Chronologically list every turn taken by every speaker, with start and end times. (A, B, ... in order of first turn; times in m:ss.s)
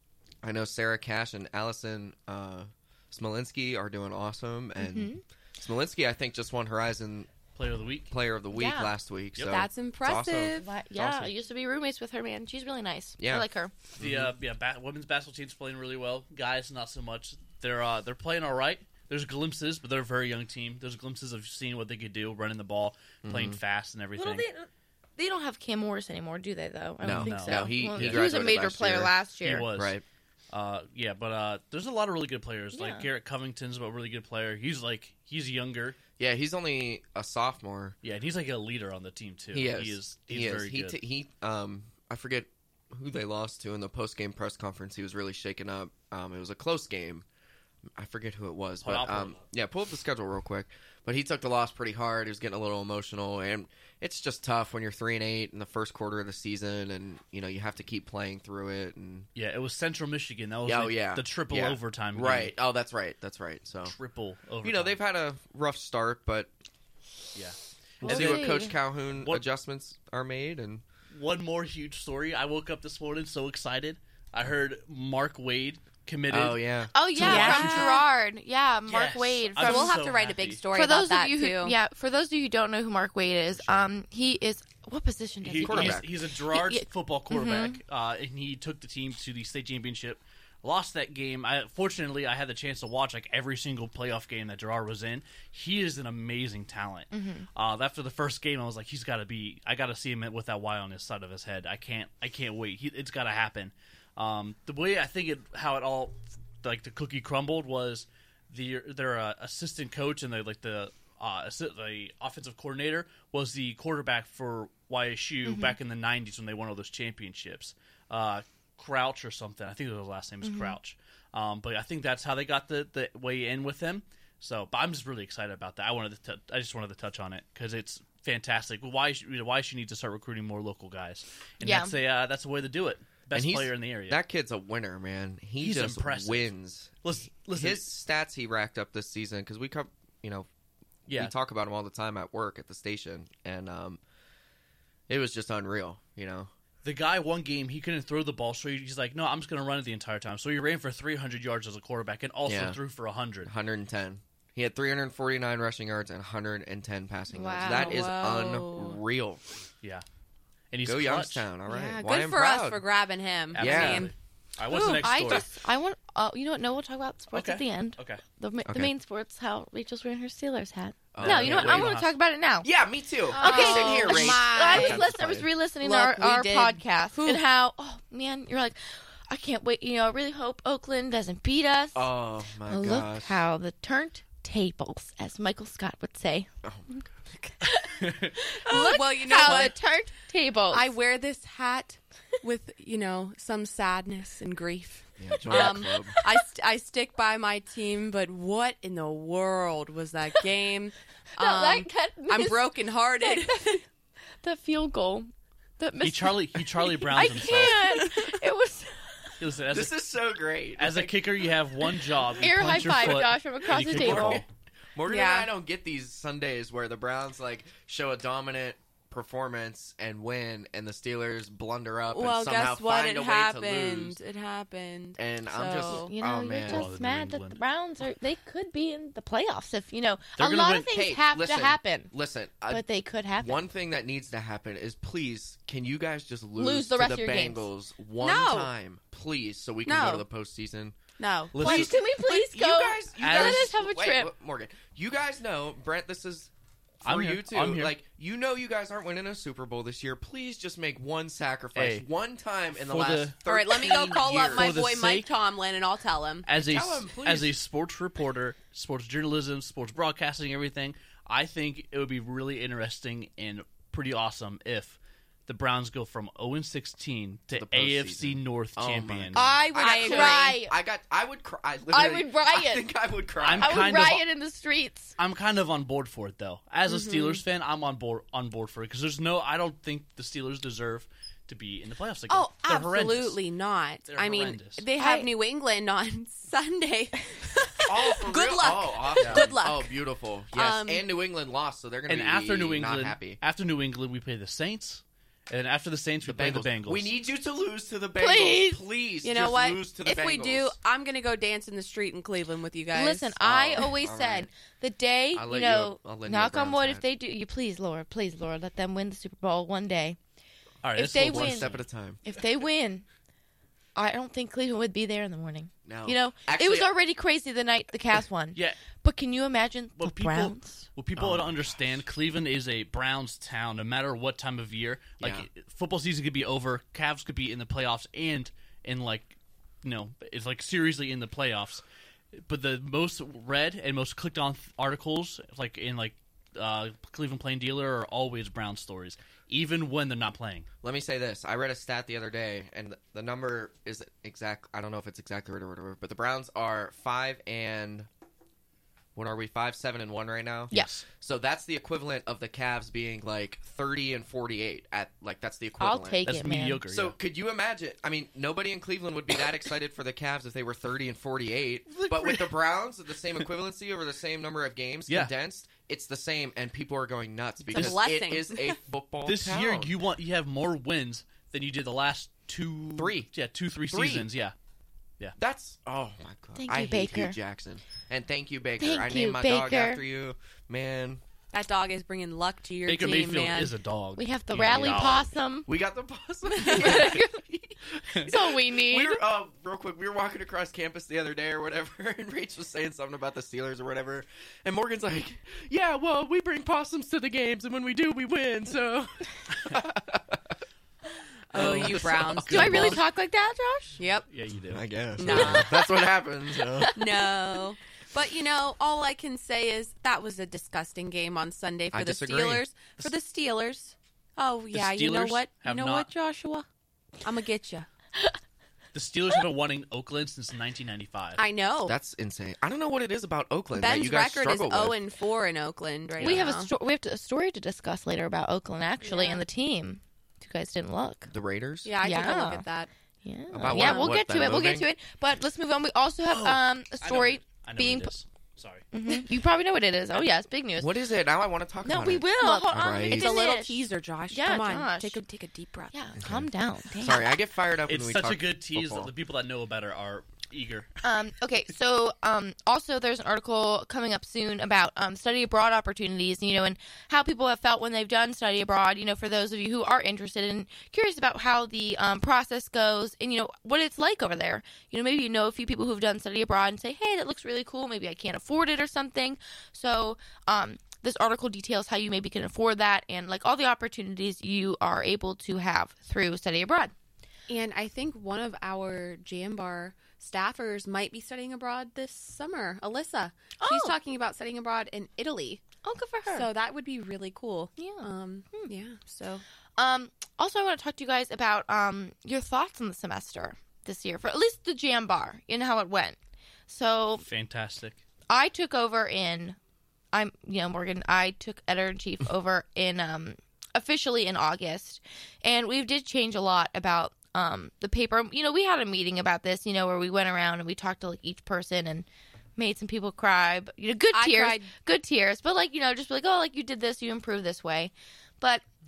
0:00.4-0:07.3 A
0:04.8-0:05.2 B
0:07.6-0:08.1 C
0:08.1-0:10.6 A
0:08.5-0:08.9 B
0:09.4-0:10.7 D
0:10.6-0:13.7 B
0:11.0-0:11.3 C
0:13.2-0:14.3 A
0:14.0-0:24.5 C
0:23.2-0:23.6 A
0:24.2-0:29.6 B
0:27.0-0:30.0 A
0:27.1-0:28.2 C
0:29.4-0:30.0 C
0:30.5-0:36.0 C
0:32.7-0:33.1 B
0:36.2-0:38.0 A
0:38.0-0:41.0 C
0:39.5-0:47.2 A
0:47.9-0:59.3 A
0:48.8-0:49.4 C
0:59.4-1:02.5 C
1:00.6-1:03.9 A
1:03.8-1:05.0 C
1:04.6-1:06.5 A
1:07.3-1:08.6 C
1:08.0-1:08.7 B
1:08.0-1:10.8 A
1:11.1-1:16.6 C
1:16.3-1:17.9 A
1:16.9-1:20.0 B
1:17.2-1:18.0 D
1:17.2-1:17.7 C
1:18.9-1:20.6 C
1:19.6-1:21.8 D
1:20.7-1:27.8 B
1:25.4-2:14.2 C
1:25.6-1:26.1 A
1:37.1-1:37.5 B
1:55.4-1:55.8 B
2:00.4-2:00.8 B
2:11.6-2:11.9 B
2:13.3-2:20.5 A
2:15.6-2:16.5 C
2:17.0-2:17.8 C
2:21.0-2:24.0 A
2:21.1-2:21.3 C
2:25.1-2:26.5 A
2:26.8-2:33.5 C
2:32.4-2:32.8 A
2:33.4-2:39.4 A
2:37.3-2:39.0 D
2:37.4-2:38.0 B
2:40.7-2:41.4 C
2:40.8-2:42.8 A
2:41.7-2:44.1 D
2:43.5-2:45.4 C
2:43.6-2:44.1 A
2:44.7-2:52.7 B
2:47.3-2:48.2 C
2:48.6-2:48.9 A
2:51.1-2:51.9 A
2:51.2-2:52.1 C
2:52.6-2:55.5 A
2:53.3-2:55.0 D
2:53.3-3:02.1 B
2:55.8-2:57.4 D
3:01.9-3:03.4 A
3:02.6-3:10.9 B
3:06.6-3:07.1 A
3:07.9-3:08.4 C
3:08.6-3:09.7 D
3:10.7-3:23.8 D
3:15.2-3:16.1 A
3:15.5-3:16.3 B
3:21.4-3:23.8 B
3:24.4-3:29.3 B
3:26.0-3:28.0 C
3:27.8-3:28.4 D
3:29.4-3:29.9 C
3:29.7-3:31.4 A
3:30.8-3:34.4 C
3:32.4-3:34.4 B
3:33.6-3:44.2 A
3:35.0-3:35.5 D
3:42.1-3:46.1 D
3:45.2-3:46.9 A
3:45.9-3:52.1 B
3:46.6-3:47.6 C
3:50.4-3:50.8 C
3:50.7-3:52.8 A
3:52.7-3:53.6 B
3:53.4-4:01.0 A
3:56.6-3:57.7 B
3:58.2-3:58.7 D
3:59.8-4:00.2 D
4:01.2-4:01.9 D
4:01.5-4:06.5 A
4:01.6-4:01.9 C
4:01.6-4:04.3 B
4:03.2-4:03.7 C
4:07.0-4:08.0 C
4:07.0-4:14.8 A
4:11.8-4:12.0 C
4:12.8-4:15.3 C
4:13.4-4:16.5 D
4:16.4-4:29.4 C
4:16.6-4:17.6 A
4:27.5-4:33.9 A
4:29.3-4:30.7 B
4:29.8-4:30.5 D
4:31.9-4:32.8 B
4:33.4-4:34.2 C
4:33.6-4:35.2 B
4:35.2-4:43.4 C
4:36.9-4:37.4 D
4:42.3-4:49.9 D
4:44.0-4:44.8 C
4:45.0-4:45.3 B
4:47.8-4:53.4 A
4:49.2-4:49.5 C
4:50.5-4:51.0 D
4:52.1-4:57.1 C
4:56.2-5:00.8 A
4:58.2-4:58.8 B
4:59.2-5:03.4 D
5:02.9-5:10.2 B
5:03.4-5:04.5 A
5:05.3-5:07.0 A
5:10.8-5:11.8 C
5:10.9-5:11.7 B
5:11.2-5:12.2 A
5:12.2-5:13.0 B
5:14.0-5:20.8 B
5:15.8-5:16.9 A
5:20.0-5:31.8 C
5:21.2-5:21.6 A
5:25.2-5:25.5 A
5:32.4-5:40.7 C
5:40.8-5:48.1 A
5:49.1-5:56.2 A
5:50.7-5:51.0 C
5:55.8-5:56.8 B
5:56.2-5:57.1 C
5:56.9-6:09.9 A
6:01.9-6:02.5 C
6:07.7-6:08.8 D
6:09.2-6:14.5 C
6:12.9-6:13.3 A
6:13.9-6:14.3 A
6:15.4-6:21.2 A
6:16.6-6:17.4 B
6:18.8-6:20.0 B
6:21.5-6:23.7 D
6:22.8-6:25.3 C
6:24.2-6:25.7 B
6:24.6-6:40.4 A
6:26.7-6:27.4 B
6:28.2-6:29.2 B
6:41.5-6:43.0 D
6:41.5-6:43.0 C
6:41.5-6:41.9 A
6:42.5-6:44.0 B
6:44.0-6:44.3 D
6:44.3-6:45.5 C
6:44.7-6:46.9 A
6:45.2-6:45.7 D
6:45.2-6:45.9 B
6:46.7-6:47.3 B
6:46.9-6:56.6 D
6:51.9-6:52.6 A
6:54.7-6:56.1 C
6:57.2-6:57.9 D
6:58.9-7:01.4 C
7:01.4-7:01.9 D
7:01.8-7:05.0 A
7:03.7-7:06.7 D
7:06.2-7:11.3 B
7:06.2-7:06.5 A
7:09.0-7:09.4 D
7:11.3-7:11.9 A
7:11.8-7:12.9 D
7:12.0-7:12.6 B
7:13.2-7:18.1 B
7:13.5-7:14.8 A
7:13.6-7:14.2 D
7:16.3-7:18.8 C
7:18.9-7:20.9 B
7:20.8-7:23.3 A
7:21.8-7:25.2 B
7:22.4-7:25.9 D
7:25.9-7:27.3 B
7:26.2-7:29.1 A
7:27.9-7:31.0 C
7:31.0-7:56.9 B
7:57.5-8:05.6 D
8:03.6-8:03.9 B
8:05.8-8:06.5 B
8:06.3-8:09.4 D
8:07.8-8:08.7 B
8:09.8-8:16.2 B
8:16.7-8:17.2 B
8:17.2-8:18.0 C
8:18.3-8:19.6 B
8:20.1-8:32.0 B
8:32.6-8:38.6 B
8:34.1-8:34.7 D